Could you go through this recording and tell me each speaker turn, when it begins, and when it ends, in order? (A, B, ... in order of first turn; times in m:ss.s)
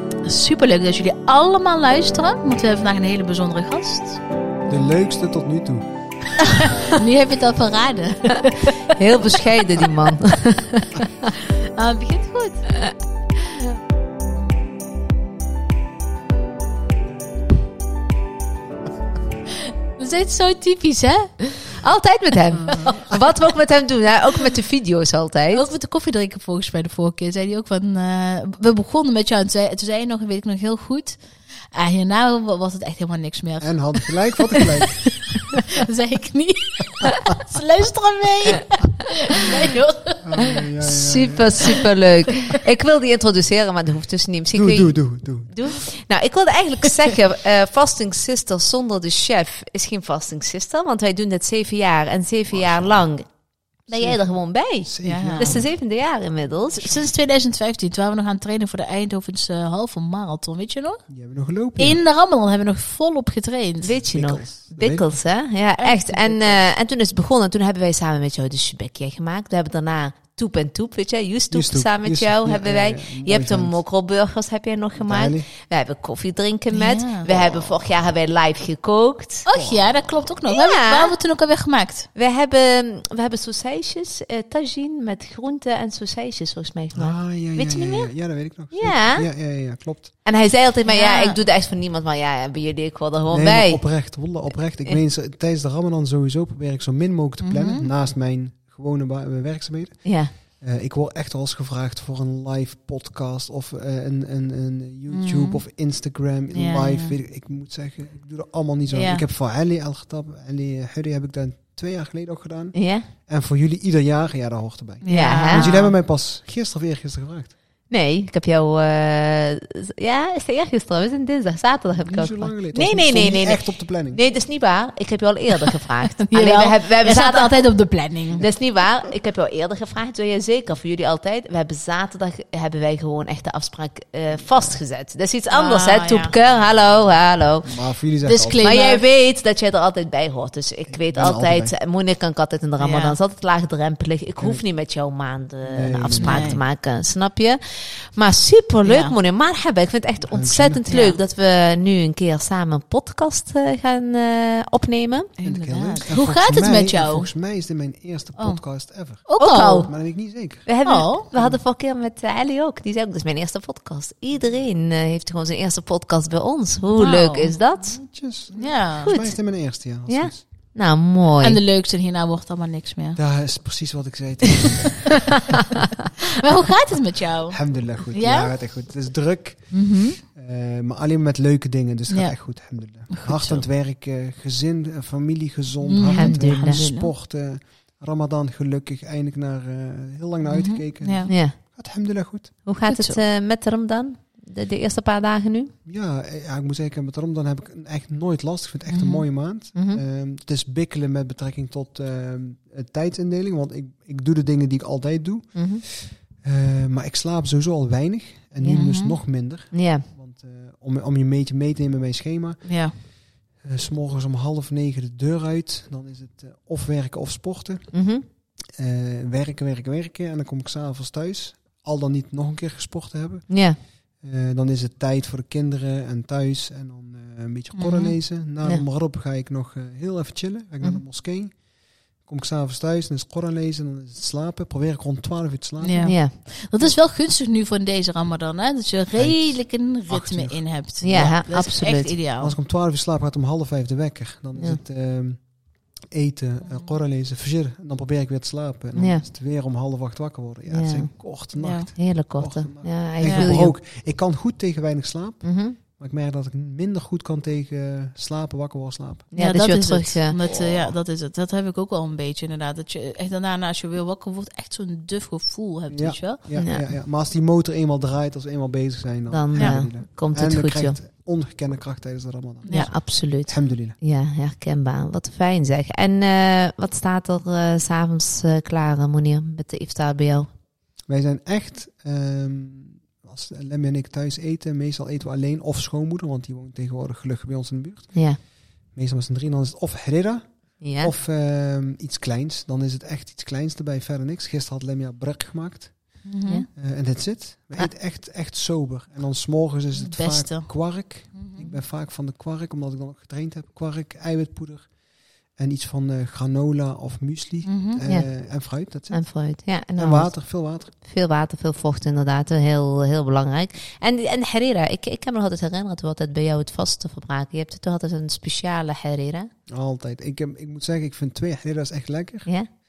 0:00.2-0:04.2 A
0:04.7-0:05.9 B
0:06.4-0:09.0 A
0:08.9-0:11.4 C
0:11.4-0:12.7 A
0:20.0-0:21.4 A
0:21.6-0:25.7 C
0:22.7-0:23.2 A
0:25.5-0:31.2 A
0:31.7-0:34.8 A
0:33.6-0:35.0 B
0:35.5-0:40.6 A
0:40.2-0:41.7 B
0:40.6-0:53.3 C
0:44.5-0:45.8 B
0:52.5-0:53.0 B
0:53.9-0:57.1 C
0:53.9-0:54.2 B
0:54.8-0:55.7 B
0:55.0-0:55.7 A
0:56.7-1:01.0 A
1:01.1-1:02.0 B
1:01.8-1:03.9 A
1:03.8-1:19.5 C
1:04.1-1:05.1 B
1:05.8-1:06.6 A
1:11.5-1:13.8 B
1:15.0-1:15.5 B
1:16.7-1:17.3 A
1:19.5-1:22.1 A
1:19.5-1:19.9 B
1:20.5-1:21.1 C
1:22.2-1:28.1 C
1:27.0-1:30.1 B
1:28.7-1:29.3 C
1:30.2-1:33.8 C
1:30.9-1:31.4 A
1:33.3-1:52.8 B
1:37.4-1:37.9 A
1:40.0-1:40.3 C
1:45.1-1:45.6 A
1:46.5-1:47.2 A
1:48.9-1:49.2 A
1:52.7-1:53.1 C
1:53.3-1:57.5 B
1:55.0-1:55.9 A
1:55.1-1:55.7 C
1:57.9-2:07.6 C
2:01.9-2:04.2 B
2:06.0-2:08.4 A
2:08.4-2:17.7 C
2:14.3-2:14.8 B
2:15.5-2:16.4 A
2:17.6-2:18.7 B
2:18.2-2:19.0 A
2:18.6-2:27.6 C
2:20.9-2:21.7 B
2:22.8-2:23.2 A
2:25.6-2:26.6 B
2:26.2-2:26.6 A
2:28.2-2:35.3 C
2:28.8-2:29.2 A
2:30.2-2:30.9 B
2:30.9-2:31.2 A
2:35.4-2:37.3 A
2:35.4-2:40.7 B
2:39.3-2:39.9 A
2:39.4-2:39.9 C
2:40.7-2:48.0 C
2:40.8-2:41.3 A
2:47.0-2:47.5 A
2:47.8-2:50.4 B
2:48.6-2:49.1 A
2:49.0-2:49.4 C
2:50.1-2:51.6 C
2:51.4-2:53.2 A
2:53.2-2:55.3 B
2:56.3-2:58.5 A
2:57.5-3:12.5 B
2:59.7-3:00.2 A
3:02.1-3:02.4 A
3:03.1-3:03.6 A
3:05.8-3:07.1 A
3:06.1-3:06.8 C
3:10.4-3:11.3 A
3:11.3-3:11.6 C
3:12.6-3:15.7 C
3:12.9-3:13.2 A
3:15.8-3:32.8 B
3:18.9-3:19.2 A
3:19.8-3:20.0 C
3:25.6-3:25.8 C
3:28.6-3:28.9 C
3:28.6-3:29.2 A
3:29.7-3:30.1 C
3:32.6-3:32.9 A
3:33.6-3:37.9 B
3:37.9-3:38.2 C
3:38.7-3:43.5 B
3:43.5-3:43.8 C
3:44.2-3:51.6 B
3:47.8-3:48.2 A
3:52.2-3:56.1 B
3:55.8-4:02.6 A
3:56.0-3:56.4 C
3:59.1-4:01.3 B
4:01.0-4:02.2 C
4:02.4-4:05.5 B
4:06.1-4:19.3 B
4:09.0-4:09.2 C
4:10.7-4:11.1 C
4:11.6-4:11.9 A
4:12.0-4:13.7 C
4:13.2-4:13.5 A
4:15.4-4:15.8 C
4:19.3-4:20.4 C
4:19.4-4:26.4 A
4:20.4-4:21.0 B
4:25.9-4:34.0 B
4:26.6-4:26.8 C
4:29.3-4:31.0 C
4:29.6-4:29.8 A
4:32.6-4:32.9 A
4:32.7-4:40.5 C
4:41.1-4:48.3 B
4:48.1-4:48.4 C
4:48.9-5:04.9 B
4:50.8-4:51.1 C
4:56.2-4:56.7 A
5:00.0-5:00.7 A
5:01.3-5:01.8 A
5:05.5-5:09.2 B
5:07.6-5:08.0 A
5:09.1-5:10.3 C
5:10.0-5:10.9 B
5:11.0-5:19.5 C
5:19.7-5:22.5 B